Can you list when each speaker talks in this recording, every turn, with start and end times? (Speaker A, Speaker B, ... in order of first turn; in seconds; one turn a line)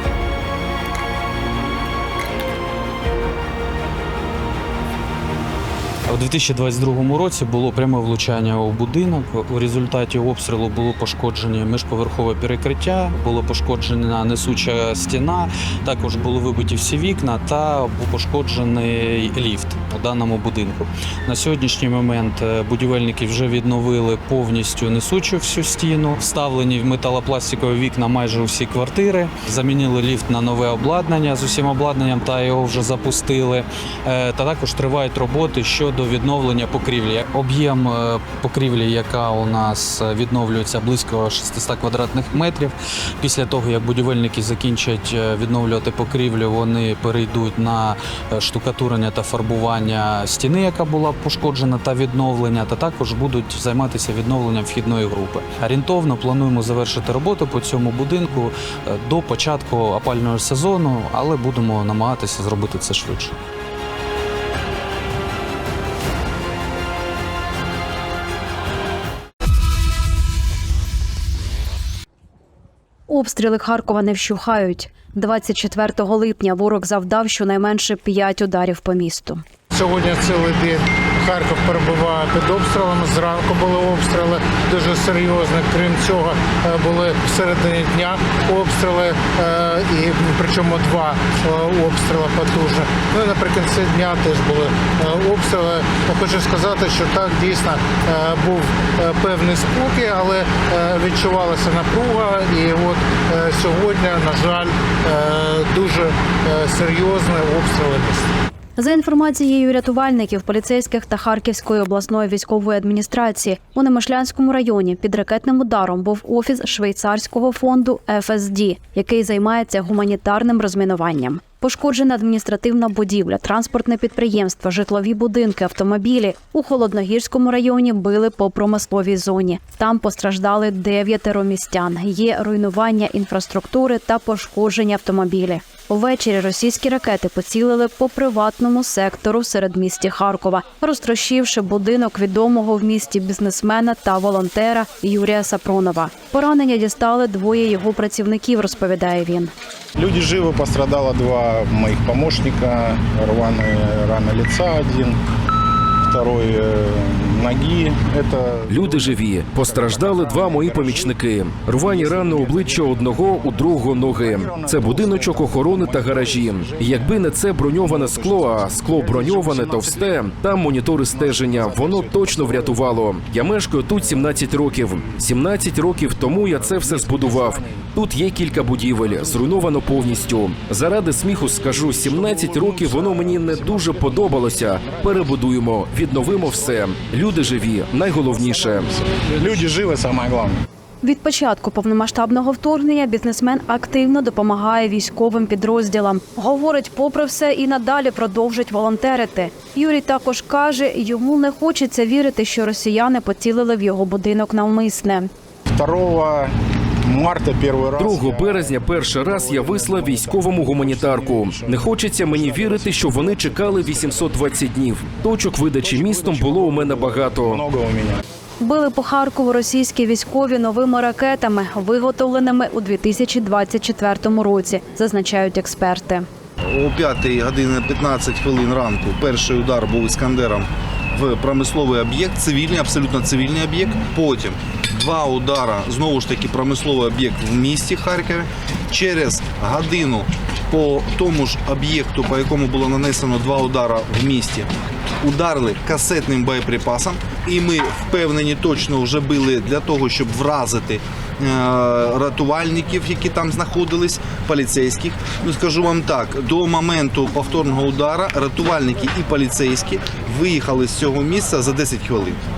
Speaker A: 6.1-63.4
Speaker B: 73.1-79.4
Speaker C: 79.7-108.3
Speaker B: 108.8-149.5
Speaker D: 150.0-155.2
Speaker D: 156.0-170.4
Speaker E: 158.7-188.9
Speaker D: 171.0-172.9
Speaker D: 173.9-175.3
Speaker D: 176.0-177.9
Speaker D: 178.7-180.3
Speaker D: 181.4-190.6
Speaker B: 191.0-205.3
Speaker D: 205.7-206.5
Speaker D: 207.1-214.7
Speaker E: 208.0-217.6
Speaker D: 215.6-218.2
Speaker B: 218.6-226.3
Speaker F: 226.7-244.7
Speaker F: 245.2-262.4